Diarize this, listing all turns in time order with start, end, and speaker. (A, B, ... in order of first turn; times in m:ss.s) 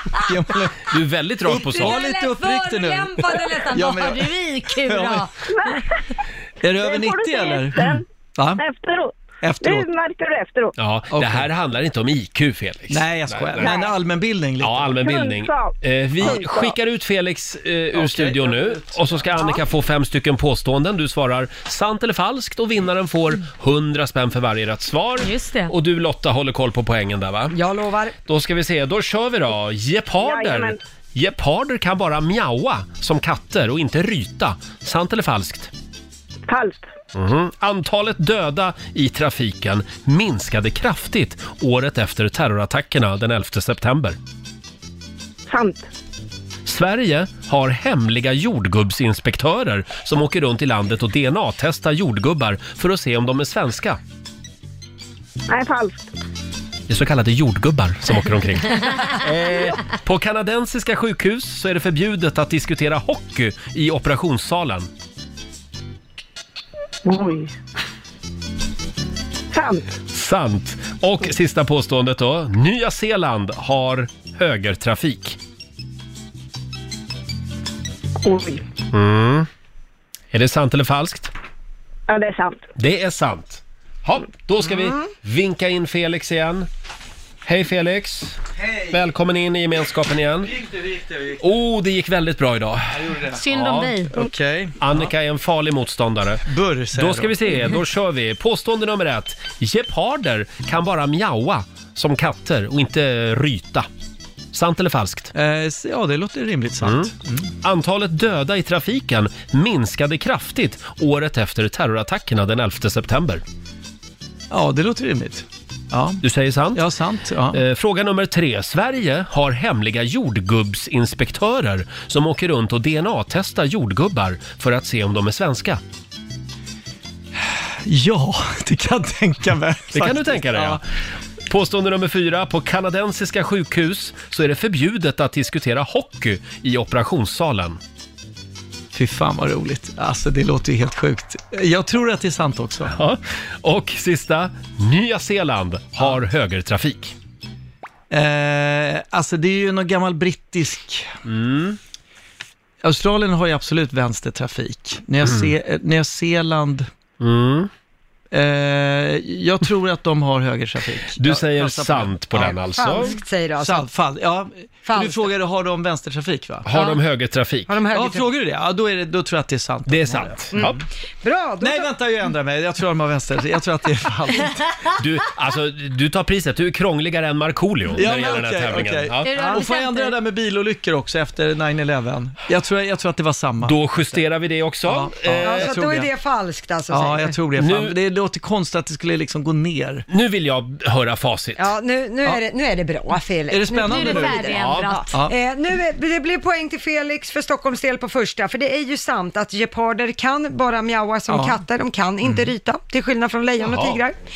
0:00.2-0:00.9 A
0:00.8-0:02.0 B
0:01.4-0:05.3 A
0:01.8-0:05.8 C
0:05.5-0:05.8 D
0:06.6-0:08.6 A
0:06.8-0:08.0 D
0:08.6-0:10.8 D
0:09.4-0:09.9 A
0:10.8-0:13.7 B
0:11.1-0:11.5 A
0:12.9-0:15.0 A
0:13.6-0:13.9 D
0:14.6-0:27.6 B
0:15.0-0:16.7 D
0:18.0-0:19.3 A
0:25.2-0:25.7 C
0:27.5-0:28.2 E
0:28.3-0:35.7 B
0:30.2-0:30.8 D
0:36.5-0:36.8 D
0:37.1-0:44.2 B
0:45.5-0:45.9 D
0:46.6-0:54.0 B
0:55.5-0:56.1 D
0:56.9-1:04.9 B
1:07.1-1:07.5 D
1:09.5-1:09.8 D
1:10.1-1:15.4 B
1:18.2-1:18.6 D
1:18.9-1:19.5 B
1:20.3-1:21.3 B
1:22.1-1:22.6 D
1:22.8-1:26.7 B
1:27.4-1:30.6 B
1:28.6-1:29.0 A
1:30.5-1:31.4 A
1:31.4-1:33.9 B
1:32.9-1:33.4 A
1:33.3-1:34.3 C
1:34.1-1:35.1 A
1:34.8-1:43.9 B
1:36.4-1:37.7 A
1:44.5-1:45.3 B
1:45.3-1:47.5 A
1:46.8-1:53.4 B
1:54.5-1:56.2 A
1:56.2-1:56.8 B
1:56.7-1:57.6 A
1:57.5-2:05.8 B
2:07.8-2:10.8 A
2:09.9-2:10.8 B
2:11.5-2:17.8 B
2:18.9-2:22.9 A
2:22.9-2:27.1 B
2:28.1-2:31.1 A
2:31.2-2:31.8 B
2:32.8-2:36.9 A
2:35.2-2:35.5 B
2:37.2-2:37.7 B
2:38.3-2:42.5 A
2:41.2-2:43.2 B
2:42.4-2:43.9 E
2:43.6-2:46.7 A
2:44.8-2:45.3 E
2:46.6-2:47.7 B
2:47.7-2:48.3 E
2:47.9-2:50.7 A
2:49.9-2:50.8 B
2:50.5-2:51.9 E
2:51.6-2:54.6 A
2:55.0-2:59.3 B
2:57.9-3:04.2 A
2:59.2-3:00.2 C
3:03.6-3:05.7 B
3:04.8-3:06.1 A
3:05.4-3:07.4 E
3:06.9-3:10.0 A
3:07.6-3:08.0 B
3:10.1-3:11.6 B
3:11.6-3:24.2 E
3:13.5-3:14.5 A
3:13.8-3:15.1 C
3:14.5-3:14.9 B
3:21.3-3:21.6 A
3:22.2-3:22.5 A
3:23.6-3:24.0 B